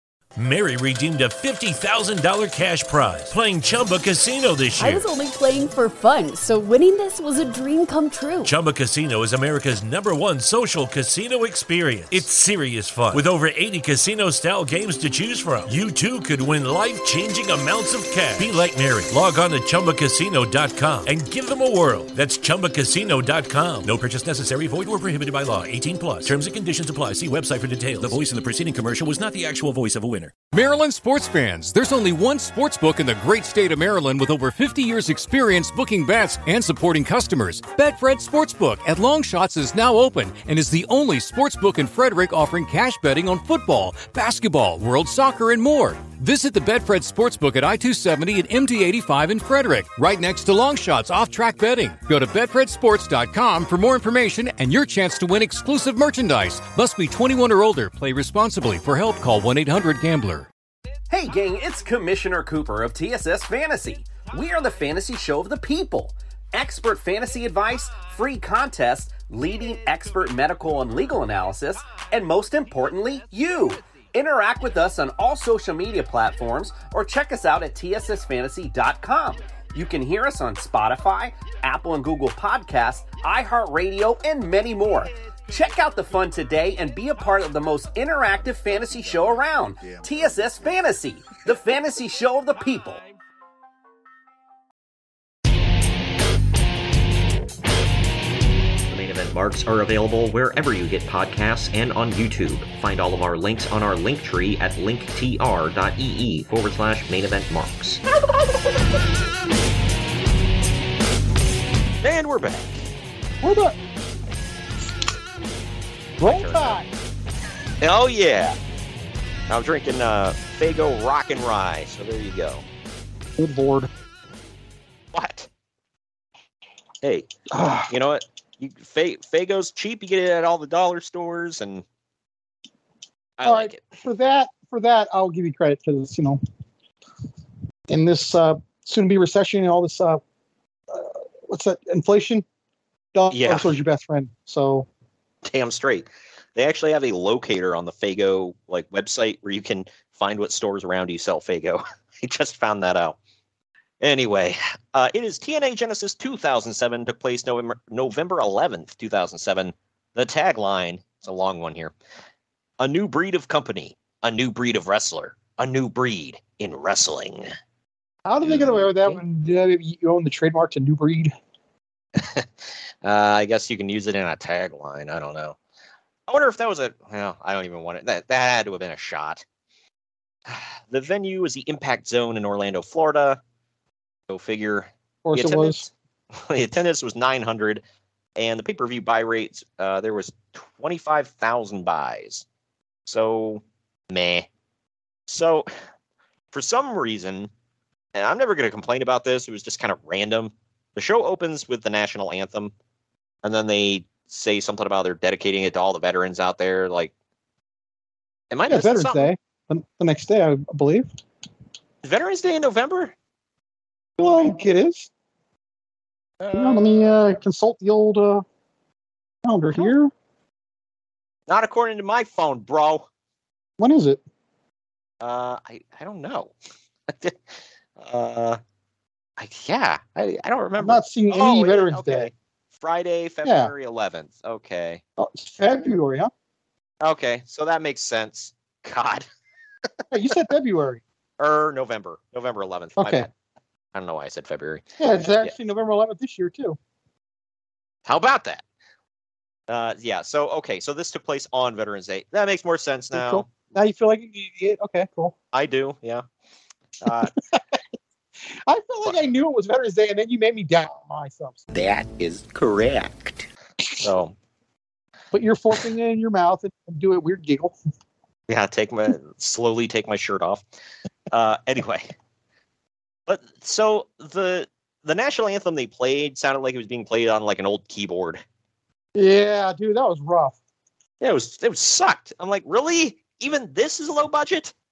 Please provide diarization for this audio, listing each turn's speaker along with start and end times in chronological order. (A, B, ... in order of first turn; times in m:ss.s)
0:00.4-0:05.0 A
0:04.8-0:08.5 B
0:08.4-0:30.3 A
0:30.5-1:00.5 C
1:01.1-1:33.0 D
1:38.9-1:48.0 E
1:52.0-1:52.8 E
1:53.4-1:53.8 F
1:56.2-1:56.9 F
1:56.2-1:56.8 E
1:57.8-1:58.6 E
1:59.5-2:02.6 E
2:03.4-2:03.9 F
2:05.1-2:05.5 E
2:07.0-2:07.3 E
2:07.5-2:07.9 F
2:07.9-2:11.8 E
2:13.4-2:13.8 E
2:13.4-2:16.4 F
2:17.9-2:20.2 F
2:20.9-2:22.4 F
2:23.1-2:24.9 F
2:23.3-2:23.7 E
2:25.4-2:33.2 E
2:34.0-2:41.9 E
2:42.8-2:47.5 E
2:48.2-2:51.3 F
2:48.4-2:49.2 E
2:52.2-2:55.6 E
2:56.3-2:59.4 E
3:00.5-3:03.4 E
3:04.3-3:07.8 E
3:05.2-3:05.9 F
3:08.4-3:12.4 E
3:13.1-3:14.5 E
3:15.3-3:15.7 E
3:16.5-3:17.5 E
3:18.1-3:22.7 E
3:23.4-3:27.1 E
3:28.5-3:29.3 E
3:28.7-3:31.1 F
3:32.0-3:33.1 E
3:34.2-3:35.1 F
3:36.5-3:38.4 F
3:39.4-3:40.1 F
3:41.5-3:43.1 E
3:43.8-3:44.2 F
3:45.2-3:46.5 E
3:47.1-3:48.6 E
3:49.4-3:55.0 E
3:50.8-3:52.3 F
3:53.4-3:53.7 F
3:55.2-3:56.3 F
3:57.0-3:59.2 E
4:00.1-4:01.0 F
4:01.4-4:03.3 E
4:03.0-4:03.3 F
4:03.9-4:04.8 E
4:05.0-4:06.8 F
4:08.0-4:08.6 E
4:09.7-4:13.4 E
4:13.1-4:15.3 F
4:15.5-4:16.2 E
4:17.0-4:17.3 E
4:18.7-4:21.6 F
4:21.7-4:23.3 E
4:24.0-4:24.3 E
4:25.3-4:27.7 F
4:28.5-4:30.6 E
4:31.3-4:32.1 E
4:33.3-4:38.4 E
4:39.2-4:40.6 F
4:41.2-4:44.7 E